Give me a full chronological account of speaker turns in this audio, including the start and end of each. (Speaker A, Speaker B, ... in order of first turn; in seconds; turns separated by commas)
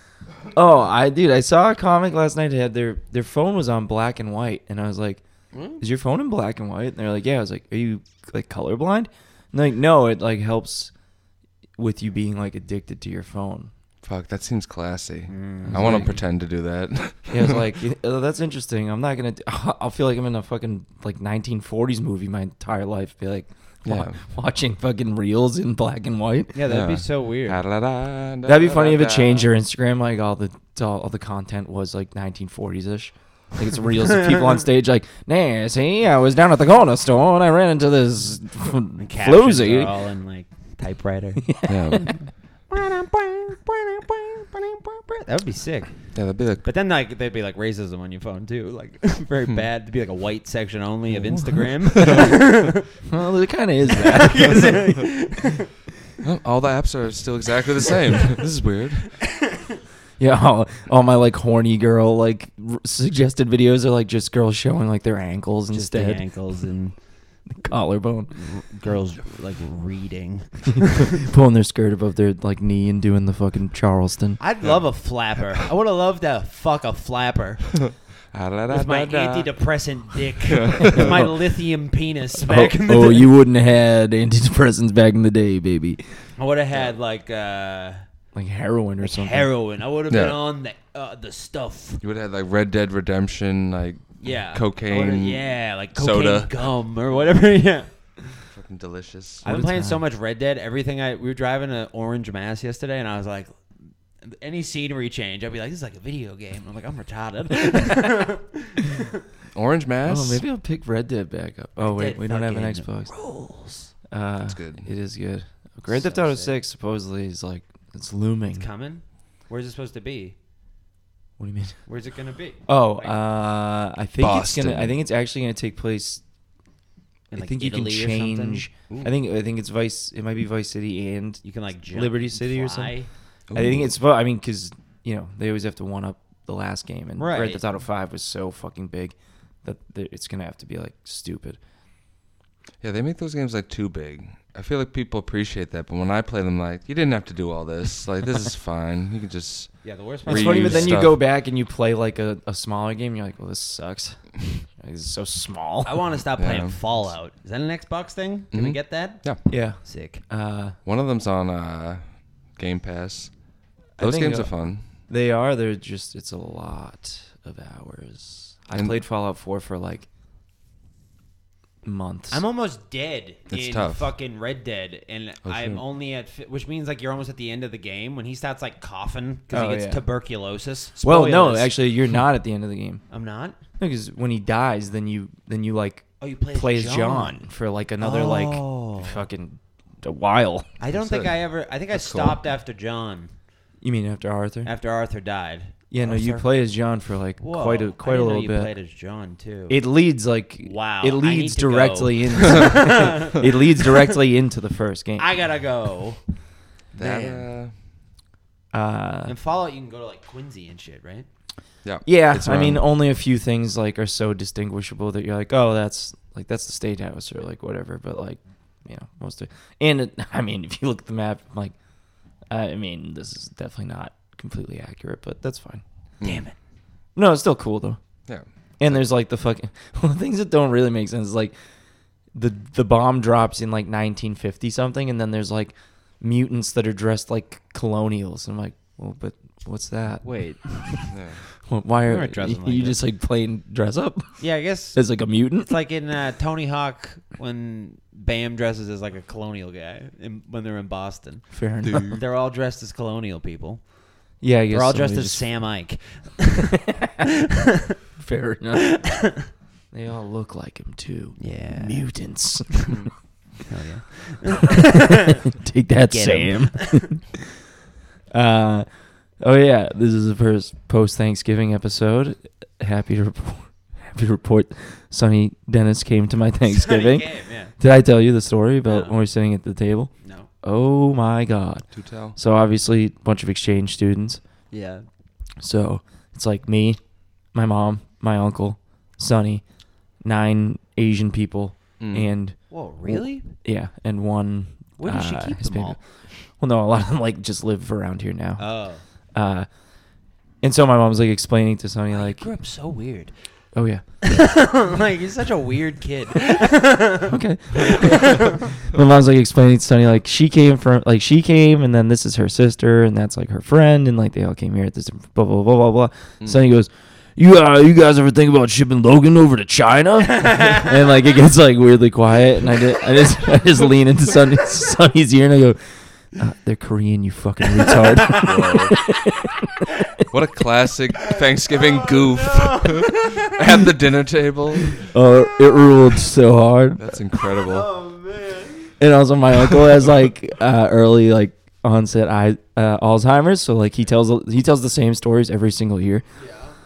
Speaker A: 0.5-5.2, Speaker B: 5.5-5.8, Speaker A: 5.8-10.9, Speaker A: 11.8-13.7, Speaker C: 14.0-17.6, Speaker B: 15.3-16.1, Speaker A: 15.7-16.2, Speaker A: 17.3-26.6, Speaker C: 23.8-24.2, Speaker B: 26.5-27.6, Speaker C: 26.6-29.5, Speaker A: 28.4-39.9, Speaker B: 39.0-41.5, Speaker A: 41.4-42.1, Speaker C: 41.7-42.1, Speaker B: 42.7-45.9, Speaker C: 46.1-46.6, Speaker B: 46.6-52.9, Speaker C: 51.1-52.4, Speaker A: 53.1-55.0, Speaker B: 53.9-55.7, Speaker C: 56.2-59.2, Speaker B: 59.3-59.8, Speaker A: 60.2-66.2, Speaker B: 65.7-67.0, Speaker A: 67.5-68.3, Speaker B: 68.3-71.2, Speaker A: 70.9-74.4, Speaker B: 74.4-77.8, Speaker C: 77.7-79.5, Speaker B: 78.7-83.3, Speaker C: 80.4-81.2, Speaker A: 80.9-81.3, Speaker A: 82.4-86.0, Speaker B: 86.4-88.0, Speaker A: 88.3-89.5, Speaker B: 89.0-92.0, Speaker C: 90.1-90.4, Speaker C: 92.0-96.6, Speaker B: 94.2-97.9, Speaker C: 98.5-99.4, Speaker B: 99.4-103.6, Speaker A: 99.4-100.0, Speaker B: 104.2-109.2, Speaker C: 109.5-110.4, Speaker A: 110.0-113.1, Speaker B: 111.8-113.9, Speaker A: 114.1-118.7, Speaker C: 114.4-114.9, Speaker B: 115.9-116.6, Speaker B: 118.5-120.3, Speaker A: 121.4-121.8, Speaker B: 121.9-123.1, Speaker A: 122.7-126.2, Speaker C: 124.2-125.0, Speaker B: 127.3-129.1, Speaker A: 127.3-132.9, Speaker B: 131.4-133.1, Speaker C: 133.5-133.9, Speaker A: 133.5-141.6, Speaker B: 137.2-137.6, Speaker C: 142.8-151.2, Speaker B: 149.8-151.1, Speaker A: 150.3-156.0, Speaker B: 155.8-159.2, Speaker C: 156.4-156.8, Speaker C: 158.5-159.4, Speaker A: 159.5-160.8, Speaker B: 159.8-160.2, Speaker C: 160.8-163.3, Speaker C: 164.0-164.8, Speaker A: 164.0-170.1, Speaker A: 171.8-172.4, Speaker B: 172.3-181.7, Speaker C: 173.5-174.1, Speaker C: 175.4-175.8, Speaker A: 179.5-180.0, Speaker A: 181.0-183.0, Speaker B: 183.1-183.6, Speaker A: 183.8-190.7, Speaker B: 186.2-187.4, Speaker B: 188.0-189.2, Speaker B: 190.8-193.3, Speaker C: 190.9-191.4, Speaker C: 191.9-192.4, Speaker A: 193.8-194.7, Speaker B: 194.6-196.5, Speaker A: 195.9-198.7, Speaker B: 197.4-199.8, Speaker A: 199.7-205.3, Speaker B: 200.6-203.5, Speaker B: 205.2-206.2, Speaker B: 206.9-207.5, Speaker C: 206.9-207.7, Speaker A: 208.7-209.3, Speaker B: 209.2-211.3, Speaker C: 211.8-212.8, Speaker A: 212.0-221.7, Speaker A: 222.5-225.8, Speaker C: 226.2-226.4, Speaker B: 226.2-226.5, Speaker A: 227.2-228.0, Speaker C: 228.3-229.0, Speaker A: 228.8-231.5, Speaker A: 232.3-244.4, Speaker B: 240.2-240.9, Speaker C: 241.1-241.4, Speaker B: 242.1-243.0, Speaker B: 244.4-245.0, Speaker A: 244.9-245.7, Speaker B: 245.6-251.4, Speaker A: 251.5-252.2, Speaker C: 251.8-252.2, Speaker B: 252.1-253.8, Speaker A: 254.4-255.4, Speaker B: 254.7-257.8, Speaker A: 256.7-257.2, Speaker A: 258.2-259.0, Speaker B: 258.8-259.5, Speaker A: 259.9-263.1, Speaker B: 261.4-262.0, Speaker B: 263.7-265.4, Speaker A: 264.7-267.5, Speaker B: 266.1-267.0, Speaker A: 268.3-268.9, Speaker A: 269.4-280.1, Speaker B: 276.7-277.7, Speaker B: 278.9-279.1, Speaker B: 280.2-280.5, Speaker A: 280.6-284.4, Speaker C: 281.9-282.4, Speaker B: 284.7-285.0, Speaker A: 285.6-287.0, Speaker A: 287.5-289.6, Speaker A: 290.2-296.0, Speaker C: 292.0-292.3, Speaker B: 292.7-293.5, Speaker B: 295.0-296.0, Speaker A: 296.6-298.6, Speaker B: 298.6-299.0, Speaker A: 299.3-299.7, Speaker A: 300.6-302.4, Speaker B: 302.1-303.3, Speaker A: 303.7-304.0, Speaker B: 304.2-308.7, Speaker A: 307.2-325.8, Speaker C: 316.4-316.7, Speaker B: 320.5-320.9, Speaker A: 326.3-330.2, Speaker C: 328.3-329.0, Speaker C: 330.3-335.1, Speaker B: 331.2-333.6, Speaker A: 335.0-337.2, Speaker C: 337.0-337.9, Speaker B: 337.6-338.9, Speaker A: 339.0-346.2, Speaker B: 346.4-346.7